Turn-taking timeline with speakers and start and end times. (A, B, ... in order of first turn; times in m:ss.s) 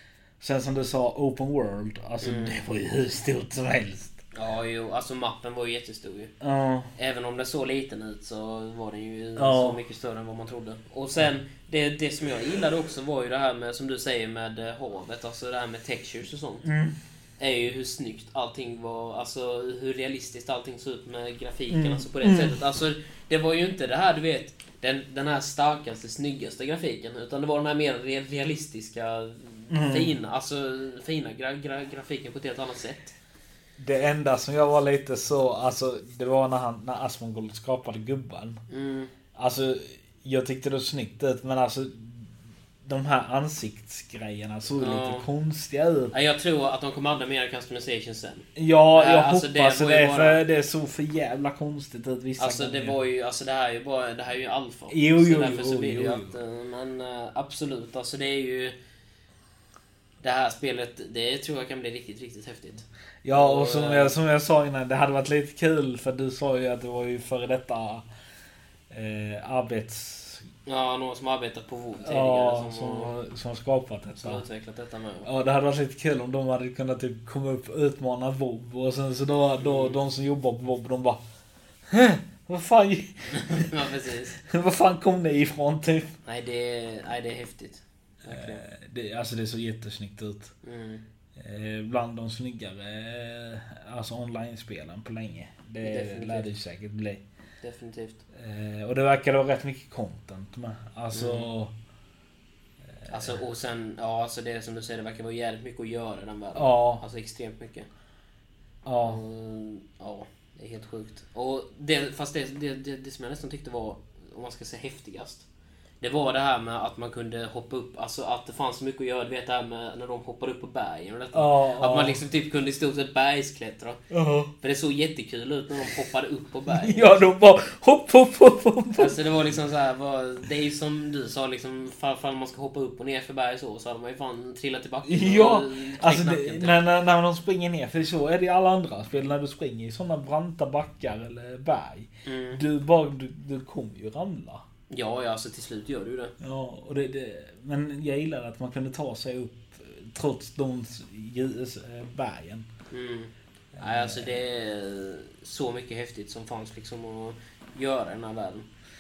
0:00.4-0:04.2 A
0:02.2-0:02.6 B
0:04.3-0:06.3 B
0:06.4-0:06.9 A
0:07.0-0:16.7 B
0:09.4-0:09.8 A
0:16.6-0:17.0 A
0:17.4-0:33.2 B
0:21.7-0:22.6 A
0:29.7-0:30.2 A
0:33.8-0:38.6 A
0:38.7-0:39.1 B
0:39.4-0:42.3 A
0:42.8-0:46.1 A
0:44.8-0:45.3 B
0:46.1-0:50.4 B
0:48.6-0:53.0 A
0:52.4-0:58.8 B
0:54.9-0:56.3 A
1:00.2-1:04.2 B
1:03.2-1:08.1 A
1:08.9-1:10.4 A
1:10.7-1:13.1 B
1:12.0-1:14.4 A
1:14.2-1:15.3 B
1:15.2-1:21.2 A
1:19.6-1:20.0 B
1:21.9-1:23.7 A
1:23.3-1:24.4 B
1:24.4-1:26.1 A
1:26.3-1:28.6 B
1:28.3-1:30.5 A
1:30.6-1:31.0 B
1:31.4-1:37.2 A
1:35.8-1:36.5 B
1:37.6-1:38.2 B
1:38.3-1:41.7 A
1:41.1-1:41.5 B
1:42.9-1:43.4 A
1:43.1-1:47.9 B
1:46.6-1:47.0 A
1:48.9-1:49.2 A
1:49.0-1:55.5 B
1:56.0-2:04.0 B
2:01.3-2:02.2 A
2:04.1-2:04.5 A
2:04.6-2:07.2 B
2:06.7-2:09.2 A
2:09.0-2:16.8 B
2:15.1-2:24.6 A
2:22.2-2:22.6 B
2:24.9-2:26.3 B
2:26.4-2:32.7 A
2:32.9-2:38.7 B
2:33.8-2:34.4 A